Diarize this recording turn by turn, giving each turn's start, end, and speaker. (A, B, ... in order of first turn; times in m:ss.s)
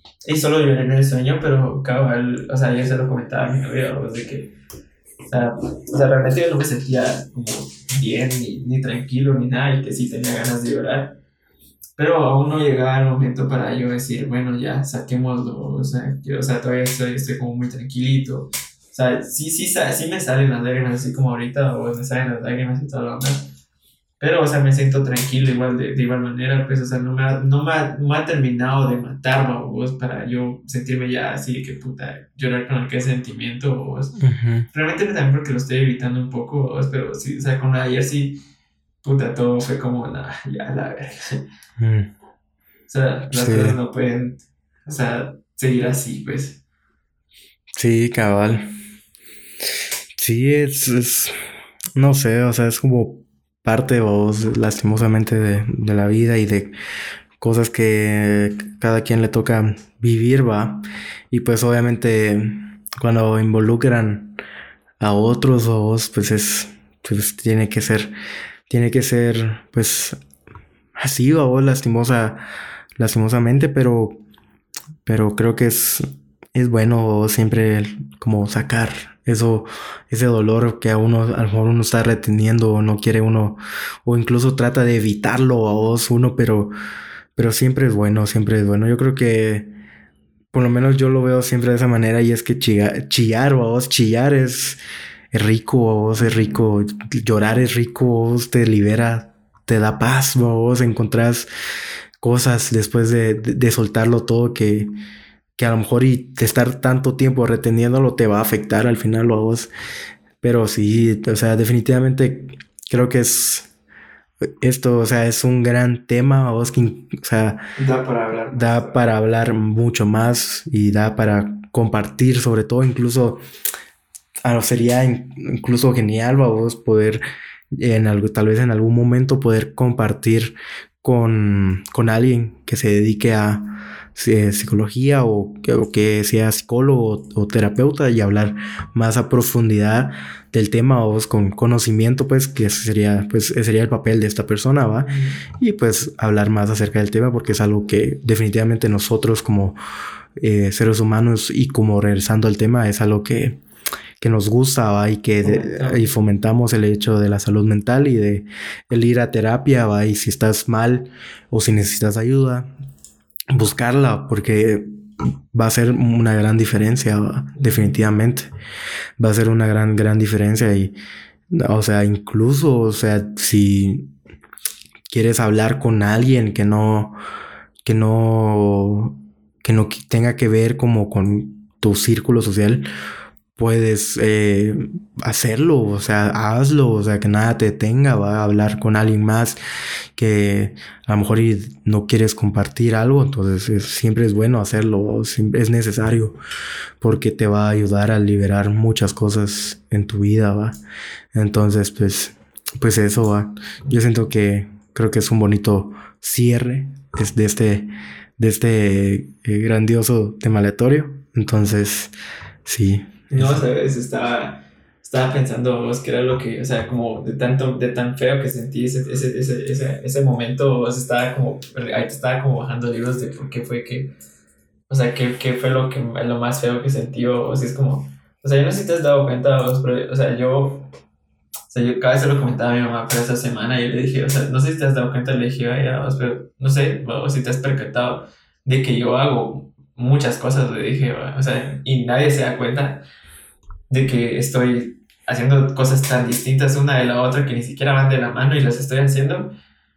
0:00.2-0:04.5 A
0:05.3-0:11.1 A
0:12.0-0:23.4 A
0:24.2-0:34.1 A
0:34.2-0:34.7 B
0:34.7-0:38.4 A
0:39.0-0:41.4 A
0:41.8-0:42.1 B
0:42.9-0:46.6 A
0:43.3-0:43.8 B
0:47.8-0:48.6 B
0:50.2-0:51.3 B
0:51.9-0:56.7 B
0:57.4-1:04.4 B
1:05.0-1:08.1 B
1:08.7-1:10.2 B
1:11.0-1:12.4 B
1:13.0-1:14.2 B
1:15.0-1:26.7 B
1:27.4-1:29.7 B
1:30.5-1:34.8 B
1:35.3-1:41.5 B
1:42.2-1:44.9 B
1:45.6-1:49.7 B
1:50.4-1:53.7 B
1:54.4-1:57.6 B
1:57.8-1:59.0 A
1:58.5-2:03.4 B
2:04.4-2:07.2 B
2:07.7-2:29.8 B
2:25.0-2:25.4 A
2:30.4-2:33.6 B
2:34.2-2:42.7 B
2:35.4-2:36.1 A
2:43.5-2:44.8 B
2:45.5-2:48.5 B
2:47.5-2:47.9 A
2:49.2-2:50.9 B
2:51.5-2:54.1 B
2:55.1-2:57.2 B
2:57.8-3:02.8 B
3:03.6-3:09.6 B
3:10.1-3:16.4 B
3:17.0-3:20.8 B
3:21.3-3:32.1 B
3:32.6-3:33.6 B
3:33.3-3:44.1 A
3:44.9-3:50.9 A
3:51.7-4:03.0 A
4:03.9-4:09.5 A